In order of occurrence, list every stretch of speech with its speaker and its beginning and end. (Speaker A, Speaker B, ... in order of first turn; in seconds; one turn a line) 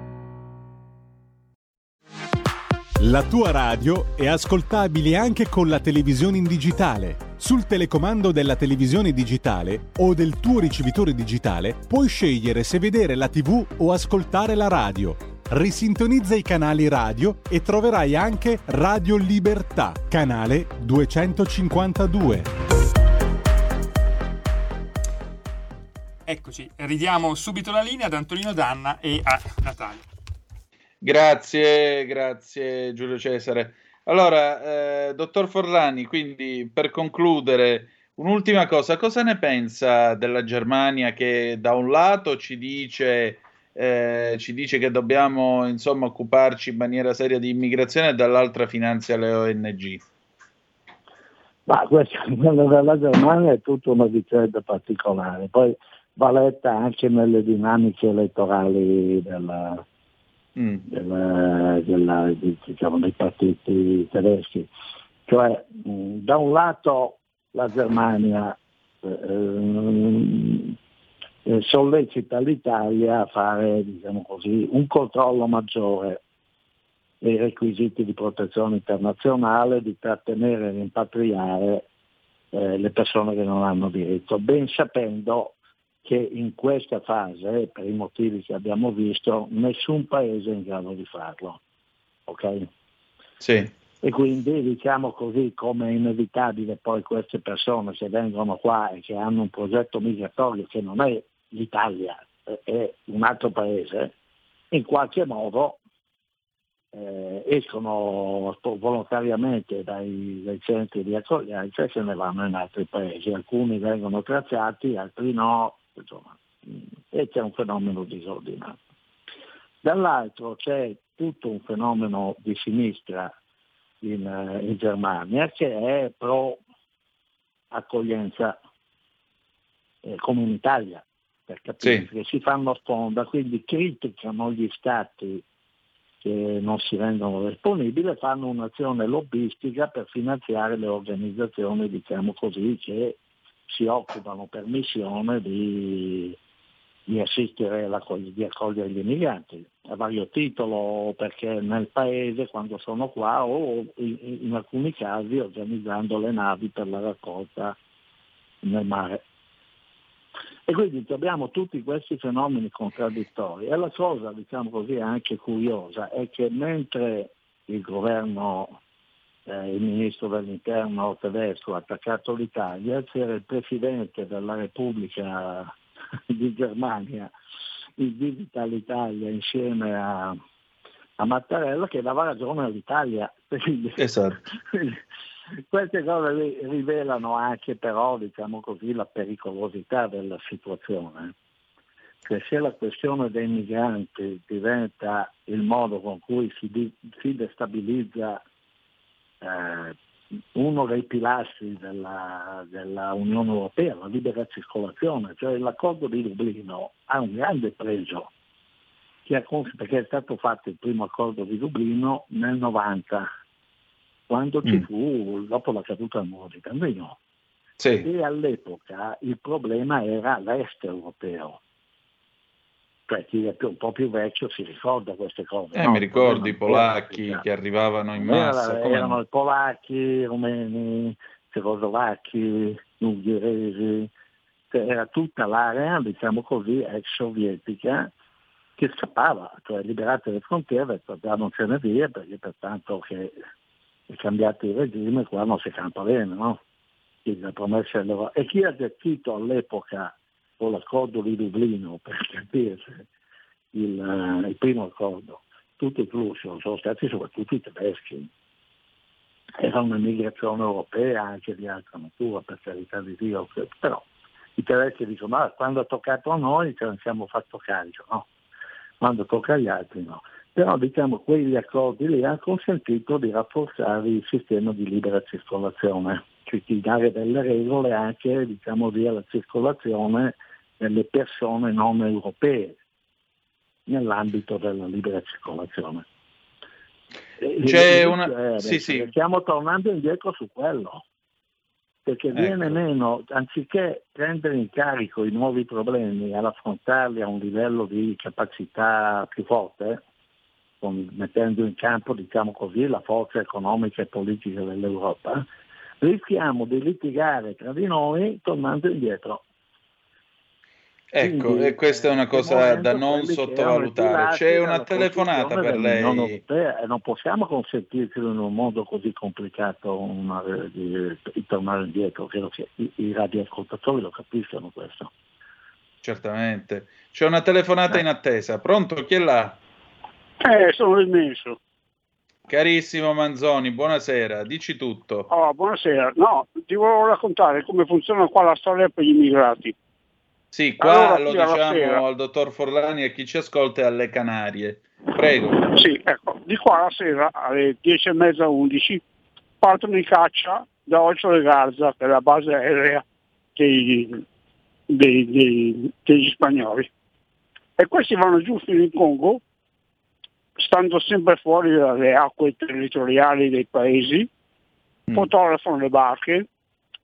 Speaker A: 3.0-22.5
Speaker B: 26.2-30.0
Speaker C: 31.0-50.0
Speaker D: 51.7-59.8
Speaker C: 60.6-60.9
Speaker D: 60.9-64.7
Speaker D: 65.3-70.7
Speaker D: 71.5-76.2
Speaker D: 77.2-81.8
Speaker D: 82.5-91.6
Speaker D: 92.3-92.7
Speaker C: 93.4-93.7
Speaker D: 94.0-104.1
Speaker D: 104.7-105.8
Speaker D: 106.9-118.8
Speaker D: 119.8-123.3
Speaker D: 124.0-126.6
Speaker D: 127.7-128.6
Speaker D: 130.0-135.4
Speaker D: 136.2-146.4
Speaker D: 147.1-157.8
Speaker D: 158.6-159.2
Speaker D: 160.7-168.8
Speaker D: 169.5-175.7
Speaker D: 176.3-177.3
Speaker D: 178.0-180.4
Speaker D: 181.2-184.0
Speaker C: 184.0-184.4
Speaker D: 184.7-185.0
Speaker D: 185.7-191.3
Speaker D: 192.2-198.4
Speaker D: 199.4-199.9
Speaker D: 200.5-208.3
Speaker D: 209.2-213.3
Speaker D: 214.3-217.2
Speaker C: 217.8-218.1
Speaker D: 218.0-221.6
Speaker D: 223.1-227.4
Speaker C: 225.7-229.2
Speaker D: 228.2-234.1
Speaker D: 234.7-238.1
Speaker D: 238.8-243.3
Speaker D: 244.1-246.6
Speaker D: 247.2-253.0
Speaker D: 253.7-258.3
Speaker D: 259.6-264.0
Speaker D: 264.6-268.3
Speaker D: 269.0-282.8
Speaker D: 283.9-286.0
Speaker D: 287.4-291.0
Speaker C: 287.6-289.1
Speaker D: 292.1-300.0
Speaker C: 292.3-292.8
Speaker D: 300.8-305.4
Speaker D: 306.0-309.4
Speaker C: 311.1-316.4
Speaker D: 311.2-325.1
Speaker C: 326.0-329.6
Speaker E: 330.4-331.6
Speaker C: 332.5-335.3
Speaker E: 335.3-339.7
Speaker C: 340.5-345.6
Speaker E: 340.8-342.0
Speaker E: 345.6-349.0
Speaker E: 349.6-353.0
Speaker E: 353.6-354.2
Speaker E: 354.9-356.9
Speaker E: 357.8-359.4
Speaker E: 360.6-364.3
Speaker E: 365.1-366.4